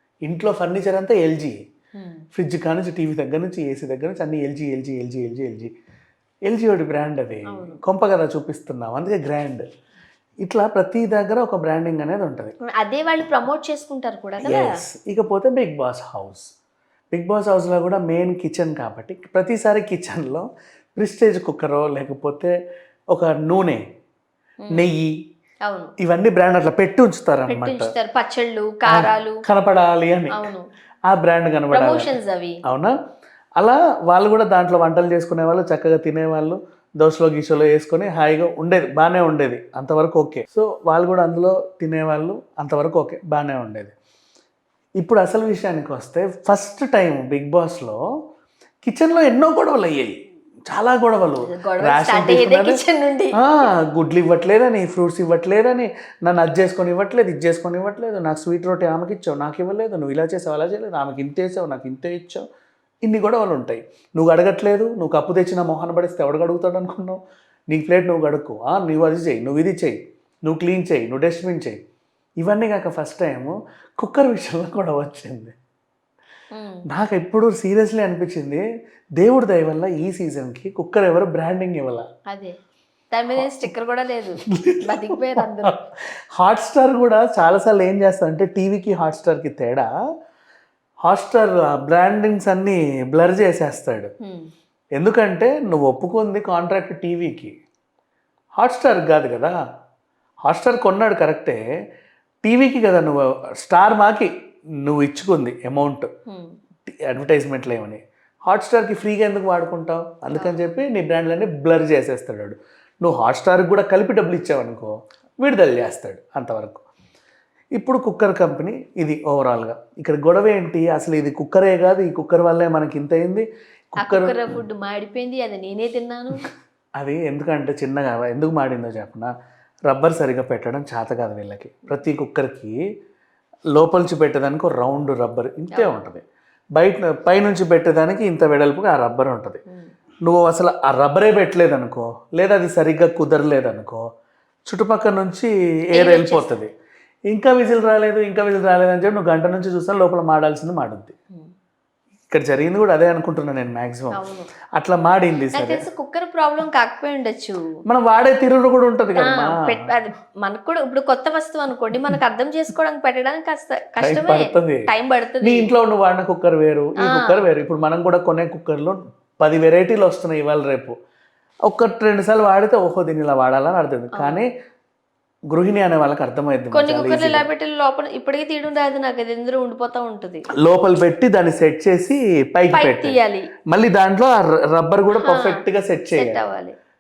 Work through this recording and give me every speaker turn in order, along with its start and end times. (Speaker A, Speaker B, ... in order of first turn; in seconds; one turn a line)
Speaker A: 0.2-1.6
Speaker B: 1.9-2.2
Speaker A: 2.3-5.7
Speaker A: 6.5-9.6
Speaker B: 7.5-7.8
Speaker A: 10.4-12.5
Speaker B: 12.6-14.7
Speaker A: 14.4-16.5
Speaker A: 17.1-22.5
Speaker A: 23.1-23.8
Speaker B: 24.6-24.9
Speaker A: 24.7-25.1
Speaker B: 25.6-25.9
Speaker A: 26.0-27.9
Speaker B: 27.5-29.4
Speaker A: 28.9-30.5
Speaker B: 30.3-30.7
Speaker A: 31.1-32.1
Speaker B: 31.7-32.6
Speaker A: 32.7-32.9
Speaker A: 33.6-43.9
Speaker A: 45.0-48.0
Speaker A: 48.8-52.8
Speaker B: 51.4-53.5
Speaker A: 53.3-62.4
Speaker A: 63.0-67.2
Speaker A: 67.7-71.8
Speaker A: 72.4-75.5
Speaker B: 76.5-76.8
Speaker A: 76.9-78.6
Speaker A: 79.2-82.1
Speaker B: 82.3-82.5
Speaker B: 83.1-85.8
Speaker A: 84.5-85.8
Speaker A: 86.4-89.9
Speaker A: 91.0-94.1
Speaker B: 94.2-94.5
Speaker A: 95.0-97.5
Speaker A: 98.6-99.5
Speaker A: 100.5-101.6
Speaker A: 102.4-104.3
Speaker A: 104.8-106.1
Speaker B: 106.3-106.5
Speaker A: 107.1-116.8
Speaker B: 110.3-110.6
Speaker A: 117.8-124.6
Speaker B: 124.0-126.5
Speaker A: 127.0-129.3
Speaker A: 129.9-132.7
Speaker A: 133.7-136.2
Speaker B: 135.7-136.0
Speaker A: 136.8-139.6
Speaker A: 140.2-144.0
Speaker A: 144.7-146.7
Speaker B: 145.9-146.6
Speaker A: 147.3-151.1
Speaker A: 152.3-154.2
Speaker B: 154.1-154.5
Speaker A: 154.8-155.8
Speaker B: 155.5-157.7
Speaker A: 157.9-159.6
Speaker B: 159.2-165.7
Speaker A: 164.0-164.9
Speaker A: 165.4-170.9
Speaker B: 167.0-167.4
Speaker A: 171.7-174.5
Speaker B: 174.1-174.4
Speaker A: 175.5-177.5
Speaker B: 176.7-180.4
Speaker A: 180.6-183.2
Speaker B: 182.7-183.5
Speaker A: 183.7-186.4
Speaker B: 185.1-185.6
Speaker B: 186.1-186.7